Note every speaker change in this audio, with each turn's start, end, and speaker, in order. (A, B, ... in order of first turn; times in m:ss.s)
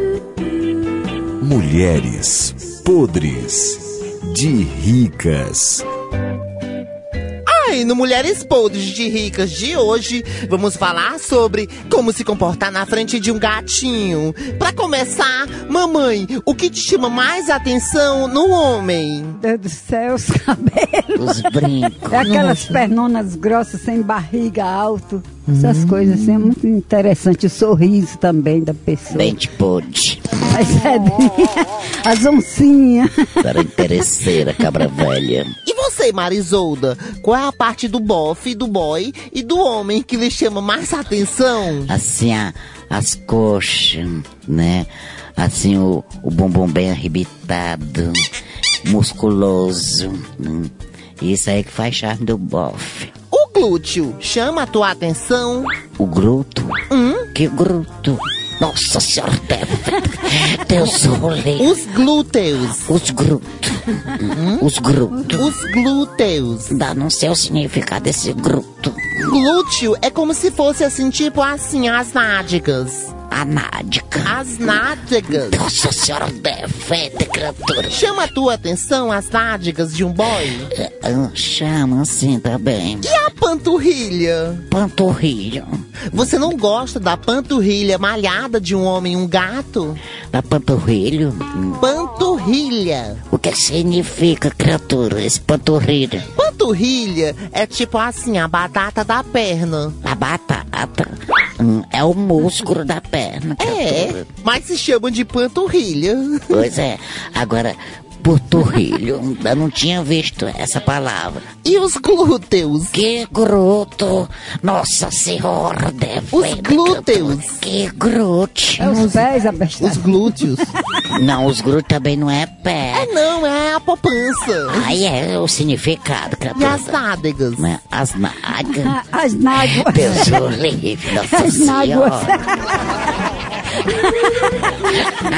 0:01.4-0:05.9 A
0:07.5-0:19.4 B
0:19.4-0:21.5 C
0:21.2-0:22.2 D
0:22.0-0:29.4 C
0:22.2-0:22.8 B
0:25.5-0:26.4 B
0:29.1-0:30.2 D
0:30.5-0:34.9 C
0:33.4-0:35.5 D
0:35.7-0:41.9 B
0:41.9-0:48.2 D
0:48.8-0:53.1 D
0:53.3-0:55.7 B
0:56.0-0:56.8 D
0:56.9-0:57.3 B
0:57.3-1:01.7 D
1:00.8-1:02.9 B
1:02.9-1:03.8 D
1:04.3-1:04.7 B
1:04.6-1:05.4 D
1:05.3-1:06.8 B
1:06.7-1:09.1 D
1:09.2-1:13.1 B
1:13.3-1:14.3 D
1:14.2-1:15.6 B
1:15.5-1:17.9 D
1:17.9-1:20.7 B
1:20.8-1:23.1 D
1:23.0-1:24.6 B
1:24.7-1:26.3 D
1:26.1-1:30.0 B
1:30.3-1:31.8 D
1:31.8-1:33.2 B
1:33.3-1:36.3 D
1:36.3-1:40.0 B
1:40.0-1:44.2 D
1:43.6-1:46.7 B
1:46.5-1:51.5 D
1:51.6-1:53.0 B
1:52.9-1:58.8 D
1:56.3-1:57.6 B
1:58.8-2:00.3 C
1:58.9-1:59.2 B
1:59.8-2:00.7 B
2:01.2-2:03.0 D
2:02.9-2:05.0 B
2:04.7-2:06.9 D
2:06.6-2:07.7 B
2:07.6-2:08.9 D
2:08.7-2:10.5 C
2:09.7-2:12.3 D
2:11.1-2:12.6 C
2:14.0-2:14.5 C